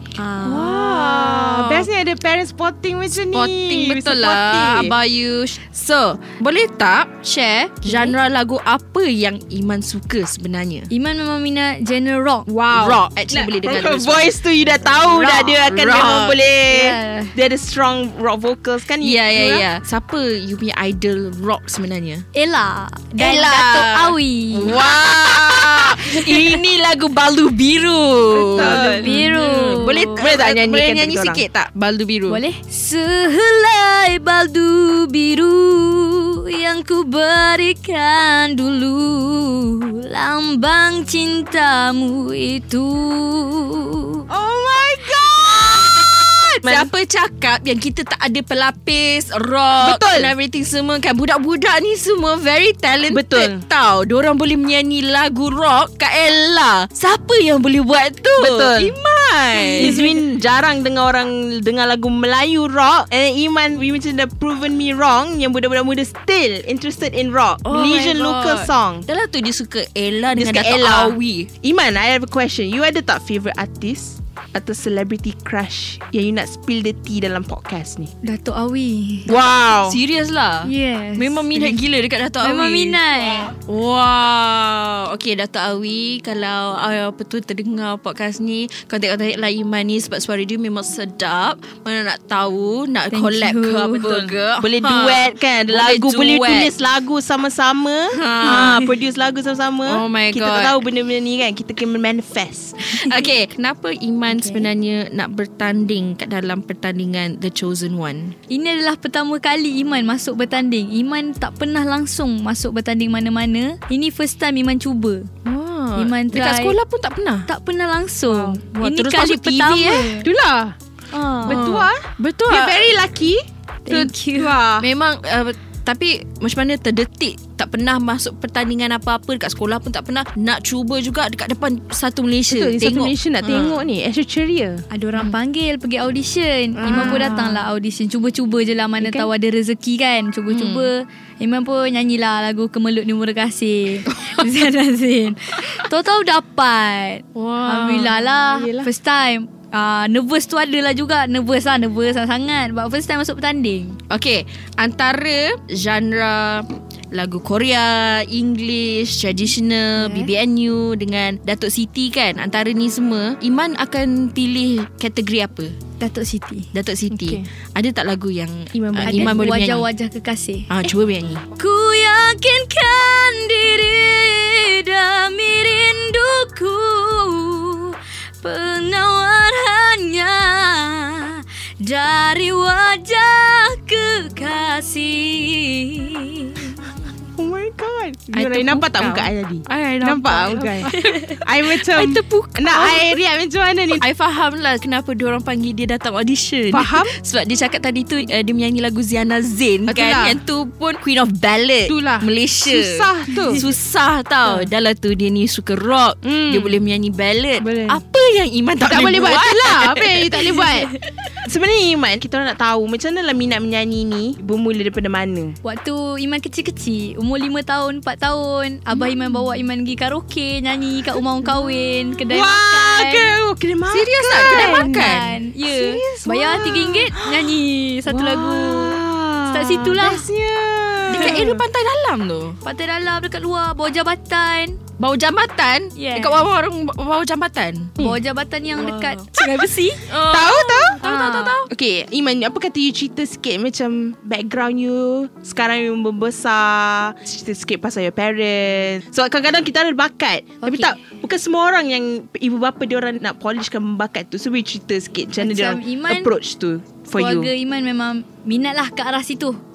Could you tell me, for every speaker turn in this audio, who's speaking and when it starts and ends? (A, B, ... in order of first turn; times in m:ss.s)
0:00.3-0:01.9 A
0:00.4-0:04.9 B
0:03.3-0:10.9 A
0:10.9-0:12.5 C
0:12.5-0:14.3 A
0:12.5-0:19.7 B
0:15.0-0:16.4 A
0:16.7-0:17.3 C
0:19.0-0:22.2 A
0:22.3-0:24.8 C
0:23.2-0:32.4 A
0:28.5-0:29.2 B
0:28.6-0:30.3 C
0:30.2-0:31.4 B
0:32.3-0:44.3 C
0:44.3-0:46.9 B
0:45.5-1:00.2 A
0:49.8-0:50.3 B
0:53.1-0:53.6 B
0:58.4-0:58.9 B
0:59.7-1:09.0 B
1:07.6-1:11.5 A
1:10.3-1:18.1 B
1:18.2-1:19.3 C
1:19.2-1:20.0 B
1:19.8-1:23.0 A
1:20.6-1:21.8 C
1:22.4-1:23.5 C
1:23.7-1:36.7 A
1:33.1-1:34.1 C
1:34.0-1:42.9 B
1:38.1-1:38.8 A
1:38.4-1:38.9 C
1:39.9-1:40.8 A
1:42.8-1:48.3 A
1:44.3-1:44.7 C
1:48.5-1:55.3 C
1:55.4-1:57.5 A
1:56.0-1:56.8 C
1:57.4-2:00.3 C
1:58.3-1:58.6 B
1:58.6-2:00.2 A
2:00.2-2:00.7 B
2:01.1-2:01.7 C
2:01.4-2:04.8 B
2:01.4-2:02.9 A
2:03.8-2:04.6 C
2:04.8-2:13.8 A
2:12.5-2:14.8 B
2:14.9-2:34.0 C
2:16.8-2:17.6 B
2:16.8-2:17.4 A
2:19.0-2:19.3 B
2:20.5-2:20.9 A
2:27.3-2:28.3 A
2:28.5-2:28.9 B
2:34.1-2:45.7 A
2:40.0-2:40.3 C
2:46.0-2:46.7 C
2:46.7-2:49.8 A
2:47.1-2:47.5 B
2:48.7-2:49.4 B
2:49.0-2:50.7 C
2:50.7-2:51.5 A
2:51.5-3:06.8 C
3:07.4-3:14.0 B
3:08.3-3:13.2 A
3:10.8-3:11.4 C
3:14.0-3:22.9 A
3:16.7-3:17.1 B
3:19.8-3:20.4 B
3:21.9-3:23.6 B
3:23.5-3:30.8 A
3:24.4-3:24.7 B
3:26.2-3:26.8 B
3:27.6-3:28.0 B
3:28.8-3:35.6 B
3:35.6-3:43.3 C
3:42.3-3:47.6 B
3:43.9-3:45.3 A
3:44.4-3:50.2 C
3:48.1-3:51.6 B
3:51.1-3:52.6 A
3:52.6-3:54.8 C
3:55.0-3:57.9 A
3:55.9-3:56.5 C
3:58.0-4:00.0 C
3:58.7-3:59.3 A
4:00.0-4:01.7 A
4:00.3-4:01.0 B
4:01.0-4:01.6 C
4:01.7-4:17.5 B
4:10.6-4:10.9 C
4:15.4-4:16.3 C
4:17.1-4:19.6 C